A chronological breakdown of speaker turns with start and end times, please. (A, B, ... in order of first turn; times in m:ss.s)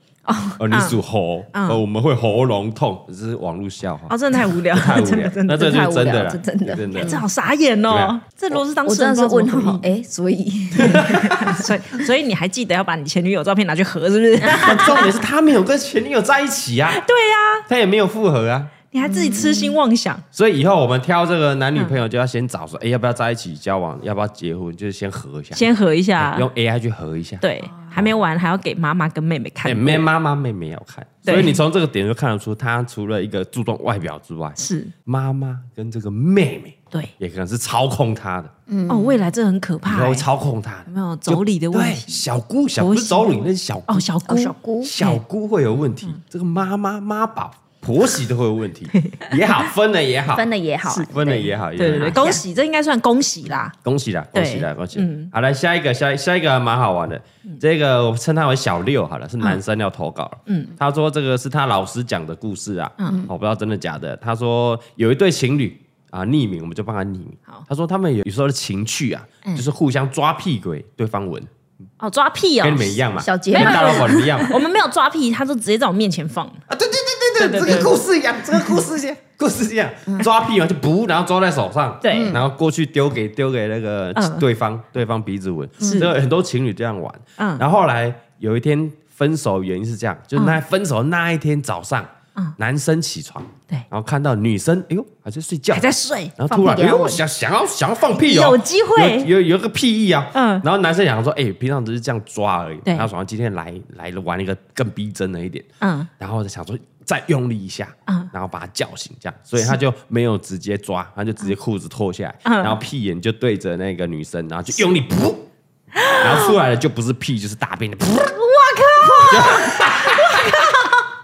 0:00.2-0:00.6 A
0:00.6-0:07.2 B
0:00.7-0:01.0 C
0:01.5-0:01.8 C
0:04.1-0:05.8 C
0:05.5-0:07.2 A
0:07.0-0:09.8 C
0:07.9-0:08.1 B
0:08.8-0:11.6 A
0:10.8-0:11.6 B
0:10.9-0:15.1 C
0:14.5-0:17.0 B
0:16.9-0:17.6 C
0:17.7-0:18.7 B
0:18.9-0:20.2 C
0:19.0-0:19.8 A
0:20.3-0:25.6 B
0:25.5-0:26.5 C
0:26.2-0:28.1 B
0:27.4-0:30.0 C
0:29.6-0:38.5 B
0:31.2-0:31.6 C
0:34.6-0:34.9 C
0:38.7-0:39.2 A
0:38.9-0:40.3 C
0:39.8-0:44.0 B
0:40.9-0:42.2 C
0:42.8-0:45.2 C
0:44.2-0:44.9 A
0:44.8-0:50.5 B
0:48.9-0:49.3 C
0:50.3-0:51.5 A
0:51.1-0:52.3 B
0:51.8-0:53.7 C
0:52.1-0:52.4 A
0:53.8-1:11.5 B
0:54.3-0:55.3 C
1:00.5-1:00.7 C
1:03.0-1:03.3 A
1:12.0-1:13.0 C
1:12.6-1:14.5 B
1:13.2-1:14.5 A
1:13.5-1:16.6 C
1:16.7-1:45.7 B
1:17.4-1:18.0 C
1:22.0-1:22.4 C
1:22.1-1:22.4 A
1:24.2-1:24.4 C
1:25.8-1:26.0 A
1:25.8-1:26.1 C
1:27.4-1:27.6 C
1:35.7-1:36.3 C
1:36.5-1:37.2 A
1:38.2-1:39.3 C
1:40.3-1:40.6 C
1:45.8-1:46.1 C
1:46.2-1:55.5 B
1:52.4-1:52.8 C
1:56.0-1:56.5 C
1:56.1-1:58.4 B
1:58.2-2:00.8 C
1:58.9-2:00.4 A
1:59.2-2:00.7 B